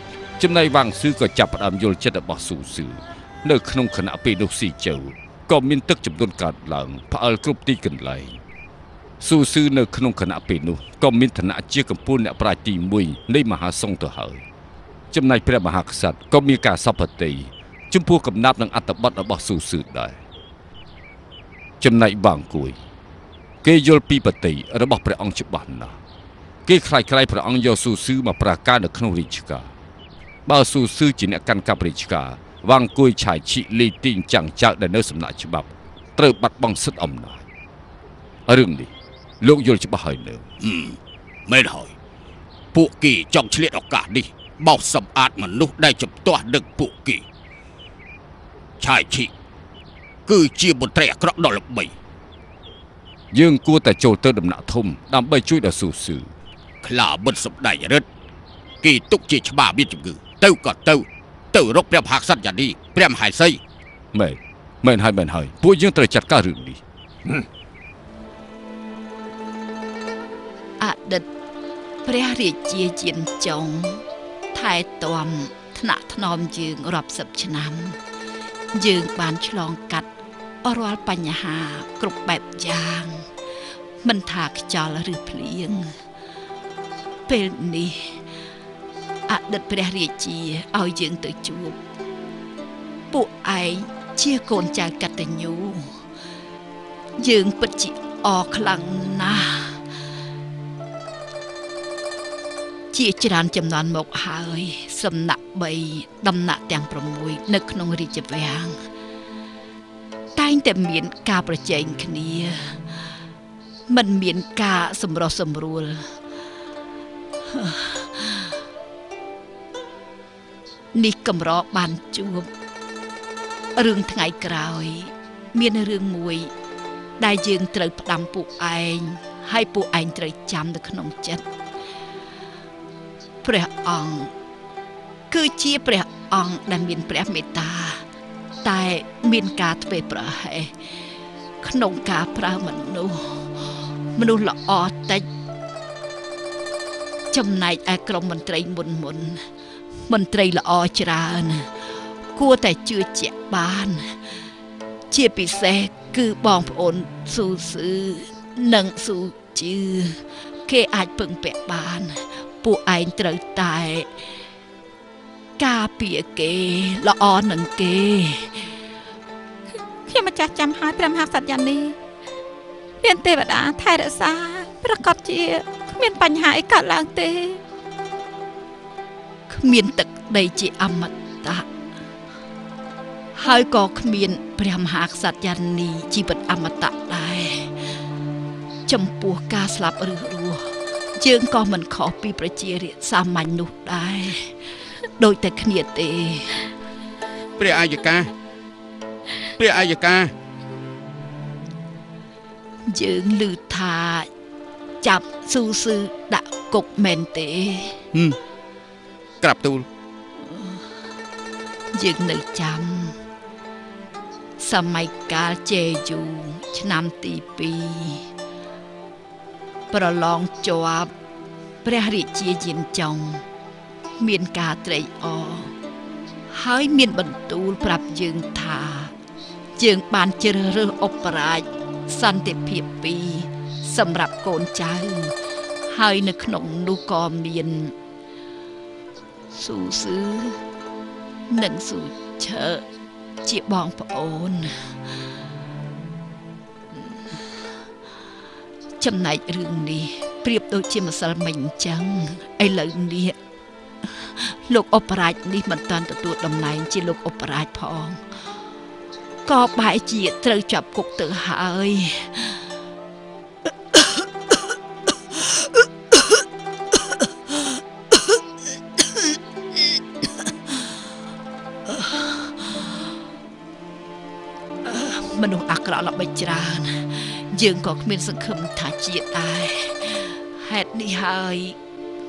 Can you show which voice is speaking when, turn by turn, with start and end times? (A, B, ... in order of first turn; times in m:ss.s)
0:00.4-0:08.4 A
0:09.2-0:14.4 A
0:15.1-0:20.2 A
0:21.8-0:22.8 A
0:23.6-0:26.0 A
0:26.6-0:29.7 A
0:30.4-0:37.4 A
0:38.5-0:40.4 A
0:40.6-0:41.9 B
0:42.7-0:47.2 B
0:48.8-0:49.3 B
0:50.3-0:51.9 B
0:53.3-0:56.3 A
0:56.8-0:58.0 B
0:58.8-1:03.6 B
1:04.1-1:07.4 A
1:10.8-1:11.2 C
1:12.0-1:18.0 C
1:18.7-1:20.1 C
1:20.6-1:23.3 C
1:24.0-1:26.0 C
1:27.3-1:28.2 C
1:29.3-1:31.8 C
1:33.1-1:36.0 C
1:37.2-1:39.8 C
1:42.9-1:48.8 C
1:50.4-1:53.1 C
1:53.9-1:56.2 C
1:57.5-1:58.6 C
2:00.9-2:02.5 C
2:03.8-2:06.5 C
2:07.2-2:11.4 C
2:13.4-2:14.3 C
2:15.3-2:18.0 C
2:18.6-2:20.9 C
2:21.6-2:25.2 C
2:27.3-2:29.4 C
2:30.1-2:34.3 C
2:35.1-2:44.1 C
2:45.6-2:48.7 C
2:50.1-2:52.0 D
2:53.0-2:57.6 D
2:59.5-3:01.7 C
3:03.3-3:07.8 C
3:08.9-3:14.5 C
3:15.2-3:16.7 C
3:17.6-3:18.3 B
3:19.6-3:20.3 B
3:22.9-3:24.3 C
3:25.0-3:28.0 C
3:29.4-3:29.8 B
3:30.4-3:30.9 C
3:31.9-3:33.2 C
3:34.6-3:38.3 C
3:39.9-3:41.1 C
3:41.8-3:43.4 C
3:44.2-3:45.7 C
3:46.5-3:49.1 C
3:49.8-3:55.3 C
3:55.9-3:57.9 C
3:59.5-4:00.6 C
4:01.5-4:02.8 C
4:03.4-4:05.0 C
4:09.0-4:13.4 C
4:14.0-4:18.2 C
4:19.4-4:22.7 C
4:31.9-4:33.1 C
4:34.8-4:41.8 C